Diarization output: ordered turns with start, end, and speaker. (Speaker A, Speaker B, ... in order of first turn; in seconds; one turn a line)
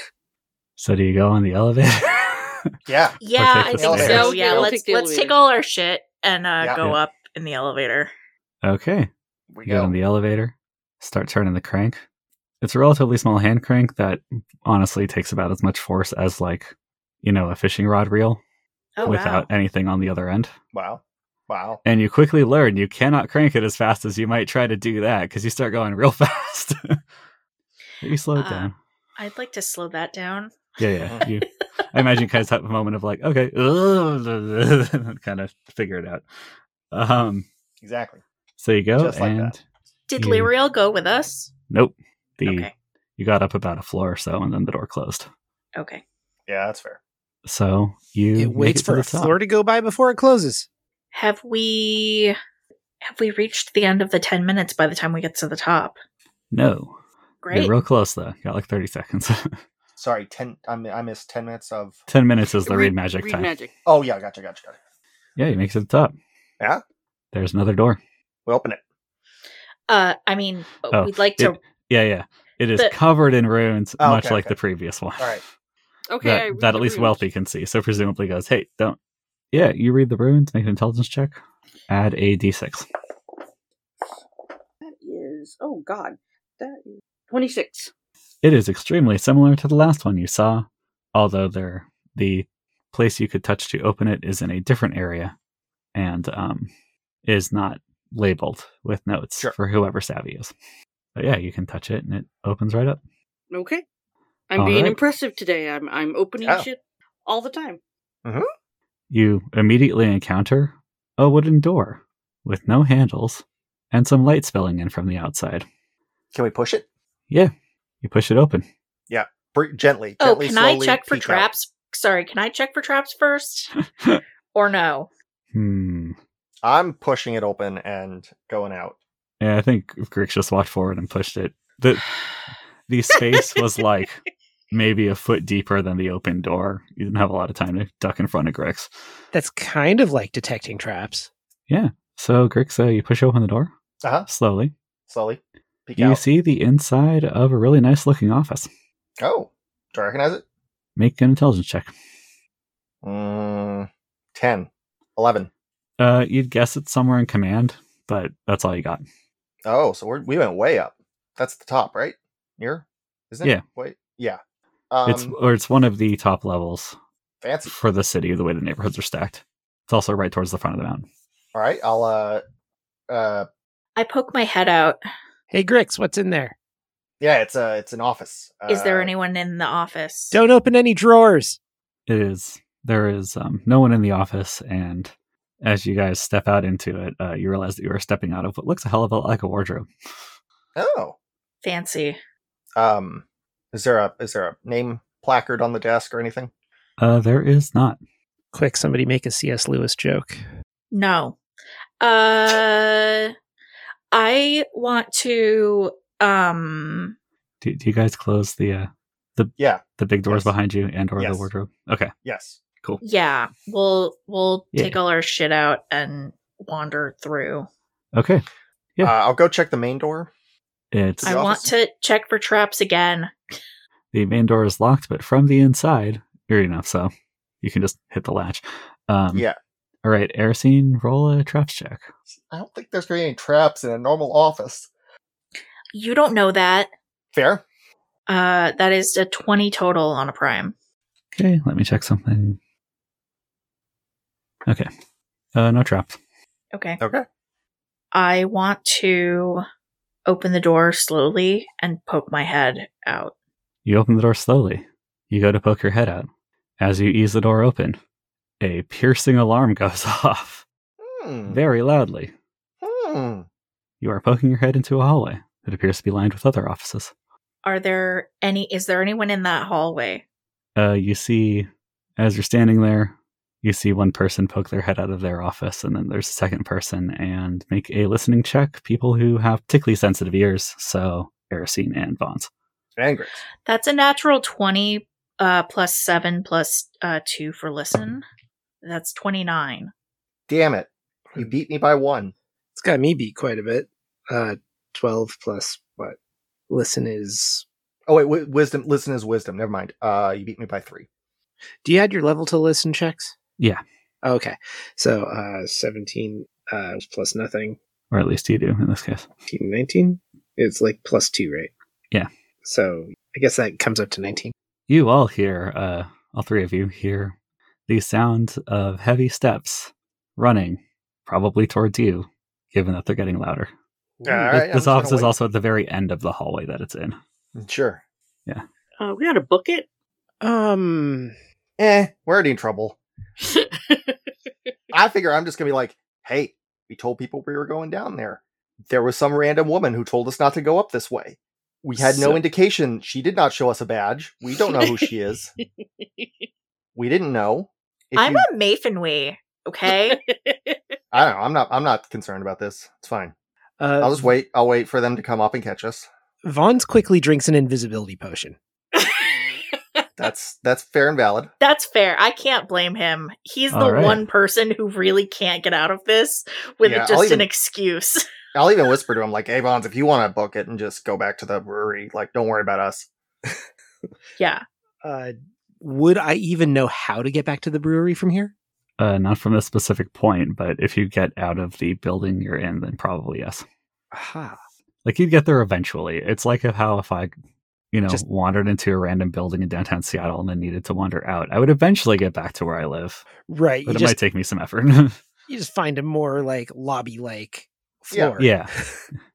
Speaker A: 0.8-2.7
Speaker B: 2.9-3.2
Speaker C: 3.2-8.1
Speaker A: 3.4-4.4
Speaker B: 3.7-4.7
Speaker D: 3.9-5.3
Speaker A: 8.6-9.1
Speaker B: 9.5-9.9
Speaker A: 9.7-12.0
Speaker A: 12.6-18.4
Speaker C: 19.0-19.5
Speaker A: 19.0-20.5
Speaker B: 20.7-21.8
Speaker A: 21.9-27.0
Speaker A: 28.0-28.7
Speaker C: 28.4-30.6
Speaker A: 30.8-36.2
Speaker A: 36.9-37.5
Speaker B: 37.8-38.2
Speaker A: 38.6-39.6
Speaker B: 39.0-39.6
Speaker C: 40.1-41.5
Speaker A: 40.2-40.5
Speaker A: 41.7-45.3
Speaker C: 42.5-42.7
Speaker C: 45.8-46.0
Speaker B: 46.5-47.0
Speaker A: 47.5-49.4
Speaker E: 48.4-50.7
Speaker C: 51.1-52.4
Speaker C: 53.0-56.0
Speaker A: 56.5-57.0
Speaker C: 57.4-57.7
Speaker A: 57.5-59.6
Speaker B: 60.0-62.0
Speaker A: 62.1-63.5
Speaker D: 62.6-63.7
Speaker B: 63.9-64.8
Speaker A: 65.4-66.1
Speaker A: 67.3-68.0
Speaker B: 68.5-68.8
Speaker C: 69.9-71.6
Speaker A: 70.9-75.4
Speaker B: 74.0-74.5
Speaker D: 76.1-77.2
Speaker A: 76.2-79.0
Speaker A: 79.5-81.4
Speaker A: 81.9-82.9
Speaker D: 84.8-87.9
Speaker A: 88.4-95.3
Speaker A: 96.0-96.7
Speaker A: 97.2-100.5
Speaker A: 101.2-103.0
Speaker D: 103.5-103.8
Speaker D: 104.5-107.8
Speaker A: 104.6-105.0
Speaker A: 109.1-115.7
Speaker B: 116.3-116.9
Speaker A: 117.3-118.7
Speaker B: 119.1-121.5
Speaker C: 120.2-123.7
Speaker C: 124.5-125.1
Speaker A: 125.5-126.2
Speaker B: 126.6-129.0
Speaker A: 129.4-132.2
Speaker A: 132.9-138.9
Speaker E: 139.3-141.3
Speaker A: 141.7-143.7
Speaker A: 144.3-144.7
Speaker B: 145.1-146.2
Speaker A: 146.0-148.7
Speaker B: 149.2-150.4
Speaker A: 151.0-151.9
Speaker B: 153.0-155.5
Speaker A: 156.0-159.0
Speaker B: 159.7-164.4
Speaker B: 164.9-165.3
Speaker A: 165.1-167.0
Speaker B: 167.4-167.7
Speaker A: 167.7-171.1
Speaker B: 171.5-172.4
Speaker B: 173.1-173.5
Speaker C: 174.0-175.0
Speaker E: 175.5-176.6
Speaker B: 177.2-179.1
Speaker C: 178.7-180.4
Speaker E: 180.3-181.6
Speaker A: 182.1-189.9
Speaker B: 190.8-191.2
Speaker C: 191.6-192.2
Speaker B: 192.8-196.5
Speaker A: 197.0-198.0
Speaker E: 198.5-200.4
Speaker C: 200.9-201.4
Speaker C: 202.0-203.3
Speaker C: 204.1-207.2
Speaker A: 207.6-212.1
Speaker B: 209.6-210.5
Speaker B: 211.2-211.5
Speaker B: 212.2-212.6
Speaker C: 213.0-217.7
Speaker A: 218.1-218.4
Speaker B: 219.0-220.3
Speaker A: 220.9-221.4
Speaker B: 221.2-221.7
Speaker C: 221.2-223.3
Speaker A: 224.1-227.1
Speaker A: 227.6-229.5
Speaker A: 230.0-232.1
Speaker B: 232.5-234.9
Speaker C: 235.9-236.9
Speaker B: 237.3-237.6
Speaker C: 238.3-240.8
Speaker A: 241.3-242.6
Speaker A: 245.5-246.2
Speaker C: 246.7-247.0
Speaker B: 247.0-247.2
Speaker C: 248.1-249.6
Speaker C: 250.3-253.3
Speaker A: 253.9-256.3
Speaker A: 256.8-258.0
Speaker A: 258.6-260.6
Speaker B: 261.0-261.6
Speaker A: 261.5-262.3
Speaker B: 262.8-263.5
Speaker A: 264.0-267.1
Speaker C: 267.6-270.2
Speaker A: 270.8-282.5
Speaker B: 283.0-283.4
Speaker C: 283.7-288.2
Speaker C: 288.8-289.9
Speaker B: 290.5-292.3
Speaker E: 292.8-296.2
Speaker E: 296.7-297.6
Speaker B: 298.1-301.1
Speaker E: 301.8-303.4
Speaker E: 304.2-307.8
Speaker A: 308.1-309.3
Speaker E: 309.5-311.7
Speaker E: 312.6-314.5
Speaker A: 314.9-317.3
Speaker A: 317.9-323.7
Speaker E: 324.2-324.5
Speaker B: 324.2-325.3
Speaker A: 324.5-327.2
Speaker B: 327.6-328.0
Speaker D: 329.0-329.9
Speaker E: 330.4-331.3
Speaker B: 331.8-333.0
Speaker D: 333.4-334.2
Speaker B: 334.9-345.5
Speaker D: 344.7-345.0
Speaker D: 346.0-346.3
Speaker B: 346.9-348.5
Speaker C: 348.2-350.2
Speaker D: 349.9-350.8
Speaker B: 351.1-353.3
Speaker E: 353.8-354.3
Speaker B: 354.0-356.1
Speaker E: 356.4-358.6
Speaker D: 359.0-360.0
Speaker B: 360.2-361.5
Speaker C: 361.6-368.2
Speaker A: 363.7-364.2
Speaker B: 366.8-367.5
Speaker B: 368.5-373.1
Speaker C: 374.4-374.6
Speaker E: 375.0-378.5
Speaker A: 379.0-383.6
Speaker E: 384.1-384.6
Speaker A: 385.1-387.3
Speaker A: 387.9-393.3
Speaker E: 393.4-394.2
Speaker A: 393.9-395.2
Speaker E: 395.5-399.0
Speaker A: 398.4-398.7